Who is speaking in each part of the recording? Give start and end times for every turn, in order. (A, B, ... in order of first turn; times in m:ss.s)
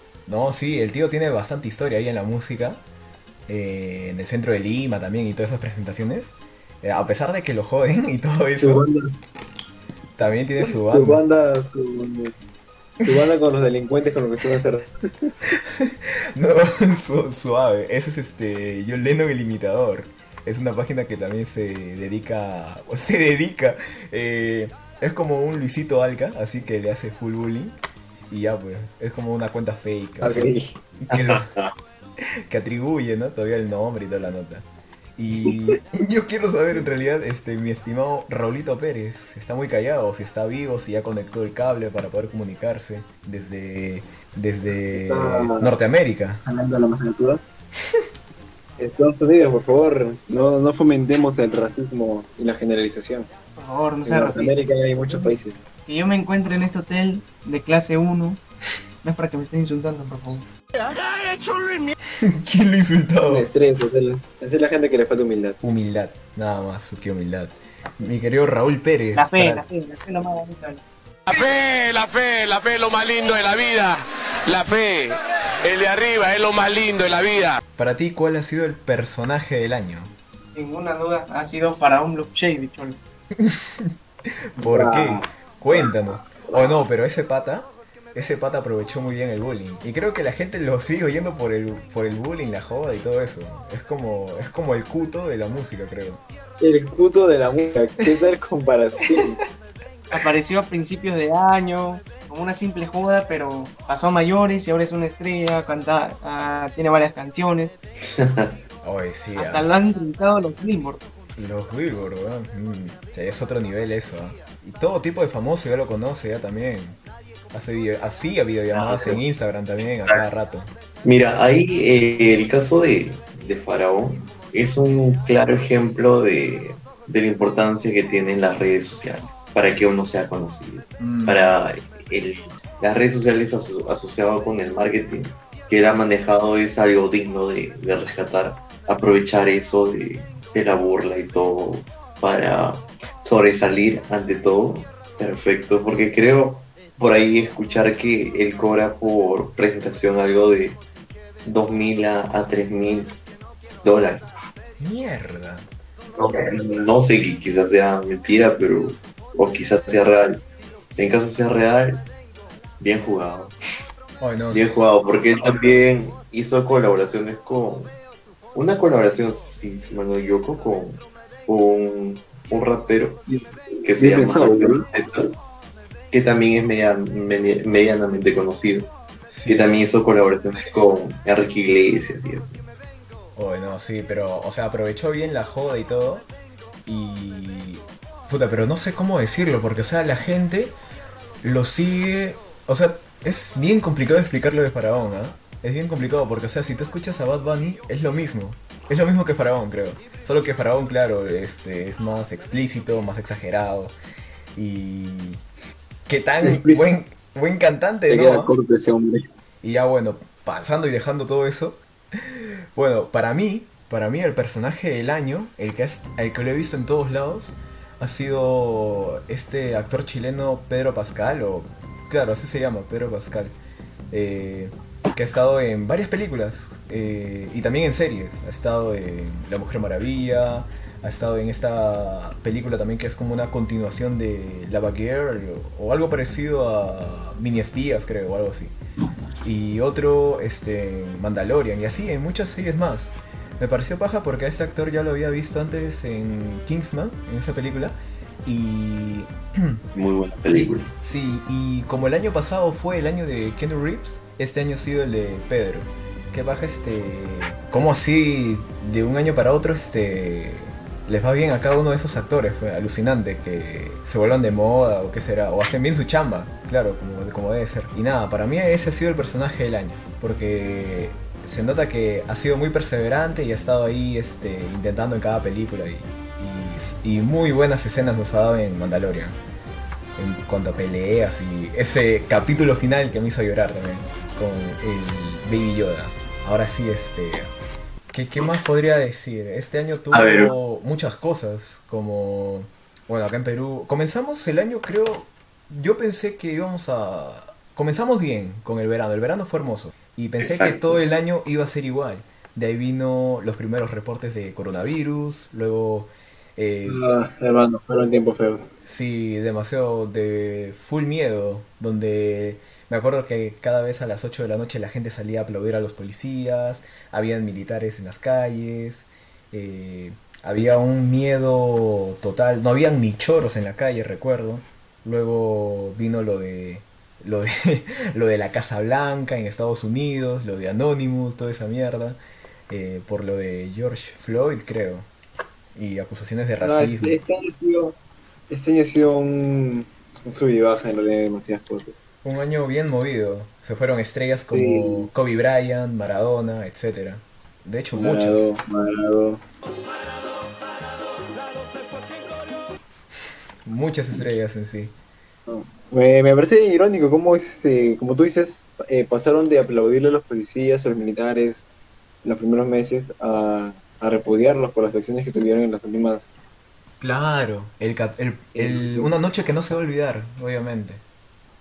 0:00.3-0:02.8 A
0:03.5-0:08.8 A
0:08.6-0:09.0 B
0:10.2-0:11.2 A
0:10.6-0:12.3 B
0:13.0-0:15.3 B
0:15.7-0:27.8 A
0:28.3-0:31.5 A
0:30.2-0:30.8 B
0:31.1-0:31.7 C
0:32.5-0:46.4 A
0:44.9-0:45.7 B
0:46.5-0:47.4 B
0:48.8-0:53.3 B
0:53.6-0:54.6 D
0:54.0-0:55.6 B
0:55.9-0:58.4 D
0:59.0-1:00.5 D
1:00.9-1:01.9 E
1:02.3-1:03.5 A
1:03.3-1:05.6 B
1:05.6-1:09.6 A
1:09.1-1:10.8 D
1:11.3-1:17.6 E
1:17.8-1:20.1 A
1:20.5-1:23.0 D
1:23.4-1:23.9 A
1:24.6-1:36.2 A
1:24.6-1:25.9 B
1:36.6-1:39.4 B
1:40.1-1:47.7 D
1:48.2-1:48.5 C
1:48.8-1:49.7 A
1:49.4-1:51.0 D
1:51.4-1:57.0 A
1:57.5-2:00.7 A
1:58.7-1:59.2 C
2:01.0-2:30.8 C
2:11.0-2:11.6 A
2:31.4-2:33.2 C
2:33.8-2:34.2 C
2:34.8-2:35.7 A
2:36.2-2:42.0 C
2:42.8-2:43.5 C
2:44.2-2:44.9 A
2:44.5-2:47.9 C
2:48.5-2:53.2 C
2:53.8-2:55.3 C
2:54.0-2:54.8 B
2:56.1-2:58.9 C
2:59.3-2:59.7 A
2:59.5-3:02.6 C
3:03.4-3:06.3 A
3:06.9-3:10.7 A
3:11.4-3:24.0 A
3:24.6-3:25.4 A
3:26.1-3:28.5 A
3:26.4-3:27.0 B
3:28.1-3:29.2 B
3:29.6-3:43.6 A
3:44.1-3:58.8 A
3:59.4-4:09.8 A
4:09.9-4:10.9 C
4:10.5-4:39.4 A
4:40.2-4:47.5 A
4:48.1-5:07.0 A
4:50.1-4:50.5 C
5:00.4-5:01.0 C
5:06.9-5:08.7 B
5:08.8-5:35.1 A
5:35.8-5:37.2 A
5:36.6-5:38.0 B
5:38.5-5:42.0 B
5:42.2-5:48.5 A
5:44.5-5:45.1 B
5:48.0-5:49.4 B
5:53.6-5:55.0 A
5:55.5-6:01.7 B
6:02.2-6:06.4 B
6:07.0-6:11.0 A
6:08.5-6:09.1 B